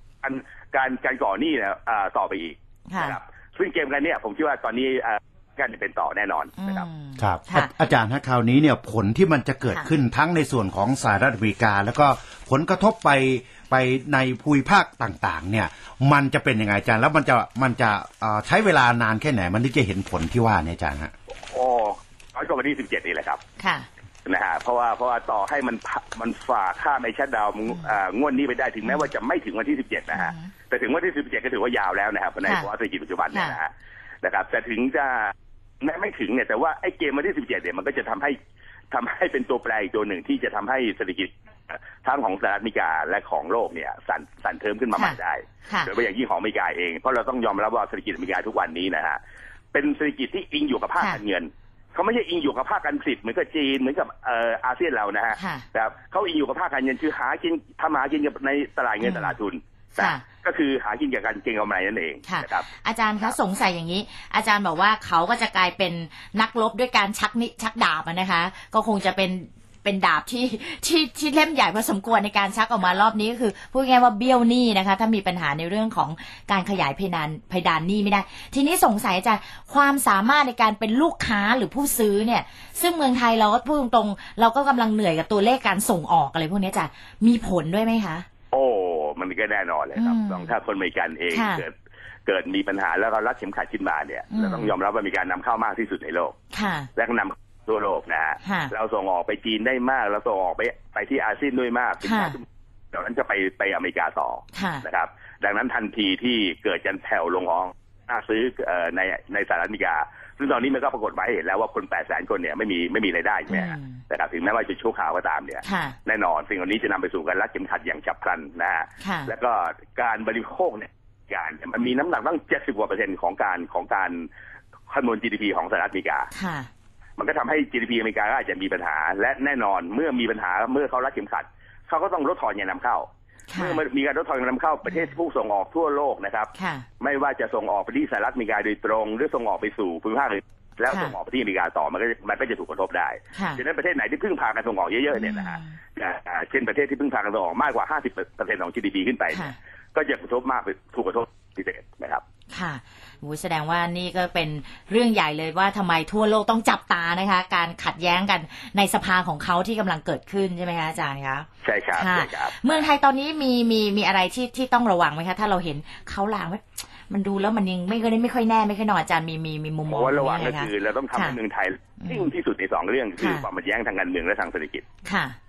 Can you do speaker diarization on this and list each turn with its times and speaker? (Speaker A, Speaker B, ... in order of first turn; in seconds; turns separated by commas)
Speaker A: 0.2-6.9, Speaker B: 2.9-3.2, Speaker B: 6.6-7.8, Speaker C: 7.2-21.1, Speaker A: 21.5-23.4, Speaker B: 23.6-23.9, Speaker A: 24.2-33.7, Speaker B: 30.1-30.5, Speaker B: 33.3-33.6, Speaker A: 34.2-38.4, Speaker A: 38.9-49.2, Speaker B: 45.0-45.9, Speaker A: 49.7-62.6, Speaker B: 55.4-55.6, Speaker B: 59.0-59.3, Speaker B: 60.0-60.2, Speaker B: 62.3-88.2, Speaker A: 88.5-91.7, Speaker B: 90.0-90.5, Speaker B: 91.3-91.6, Speaker A: 92.2-96.3, Speaker B: 94.3-94.7, Speaker B: 96.5-96.9, Speaker A: 97.0-124.3, Speaker B: 98.4-98.7, Speaker B: 102.0-102.4, Speaker B: 104.5-104.8, Speaker B: 113.5-114.0, Speaker B: 115.6-116.0, Speaker B: 119.0-119.3, Speaker A: 124.9-126.3, Speaker B: 126.3-126.7, Speaker A: 127.2-152.2, Speaker B: 133.5-133.8, Speaker B: 136.5-136.8, Speaker B: 140.9-141.1, Speaker B: 143.3-143.6, Speaker B: 145.1-145.8, Speaker B: 152.5-171.4, Speaker A: 161.6-162.8, Speaker A: 169.9-174.9, Speaker B: 172.0-172.3, Speaker B: 173.2-173.4, Speaker B: 175.0-175.3